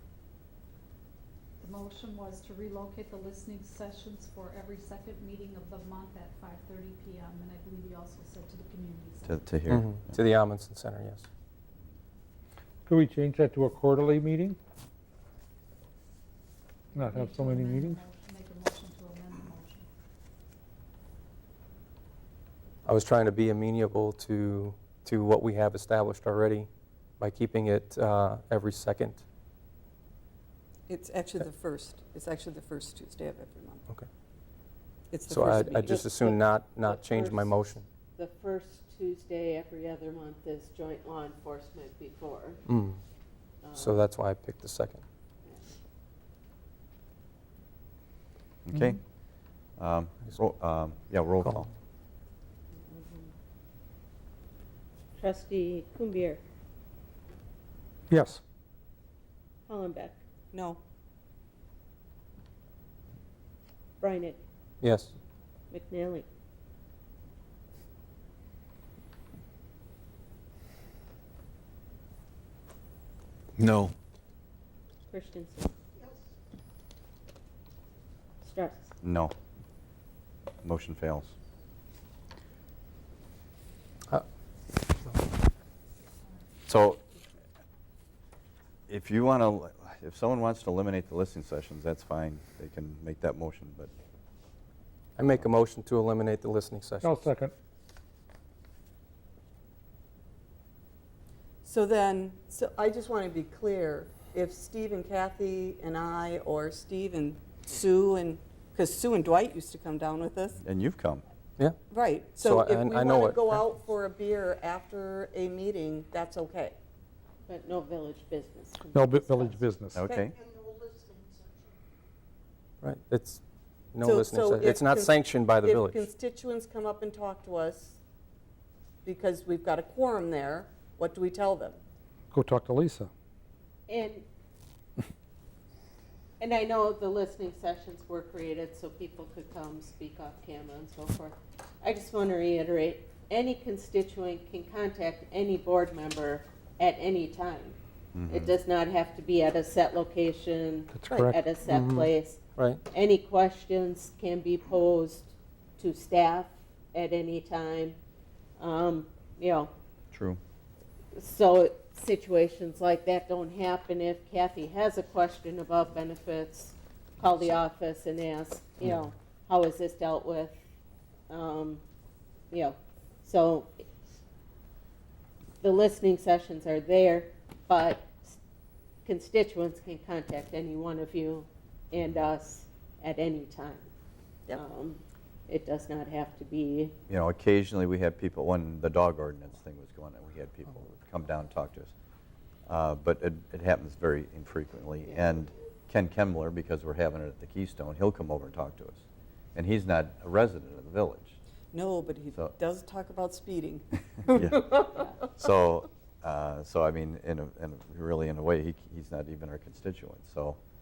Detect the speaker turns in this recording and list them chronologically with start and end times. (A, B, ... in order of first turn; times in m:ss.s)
0:01.6-0:09.4 A
0:09.2-0:10.2 B
0:09.7-0:11.3 C
0:12.8-0:14.6 D
0:16.9-0:19.9 A
0:17.0-0:18.0 D
0:22.8-0:29.2 C
0:30.9-0:33.8 E
0:35.1-0:36.4 E
0:35.3-0:37.8 C
0:35.8-0:37.6 F
0:38.2-0:42.6 F
0:42.7-0:43.0 C
0:43.6-0:44.1 F
0:43.7-0:45.0 C
0:45.4-0:45.8 F
0:48.6-0:49.0 B
0:49.8-0:51.7 B
0:52.8-0:53.3 F
0:55.2-0:56.4 F
0:58.1-0:58.4 D
0:59.7-1:00.2 F
1:00.5-1:00.8 E
1:04.0-1:04.4 F
1:04.8-1:05.1 C
1:05.7-1:06.2 F
1:15.1-1:15.7 F
1:18.4-1:18.9 F
1:19.0-1:19.3 B
1:20.6-1:21.3 B
1:26.7-1:27.0 B
1:28.9-1:33.9 B
1:35.2-1:37.3 C
1:37.0-1:37.5 D
1:41.6-1:50.6 E
1:50.6-1:51.2 B
1:51.9-1:56.8 E
1:52.4-1:53.6 C
1:57.4-1:59.6 F
1:58.9-2:00.0 D
1:59.9-2:00.3 B
2:02.8-2:03.4 C
2:03.9-2:06.1 C
2:04.0-2:08.0 E
2:09.0-2:11.8 E
2:12.3-2:13.1 D
2:13.9-2:14.2 F
2:16.4-2:38.0 F
2:28.1-2:28.5 B
2:30.9-2:31.3 D
2:31.6-2:32.8 C
2:38.6-2:39.7 F
2:40.1-2:40.4 B
2:41.1-2:50.6 F
2:51.3-2:51.8 F
2:52.5-2:53.8 F
2:55.6-2:58.4 F
2:59.0-3:03.9 F
3:04.5-3:07.0 F
3:07.1-3:11.9 B
3:12.7-3:19.0 B
3:19.5-3:21.4 B
3:21.7-3:24.8 E
3:24.3-3:24.7 B
3:24.9-3:25.1 F
3:25.3-3:30.6 B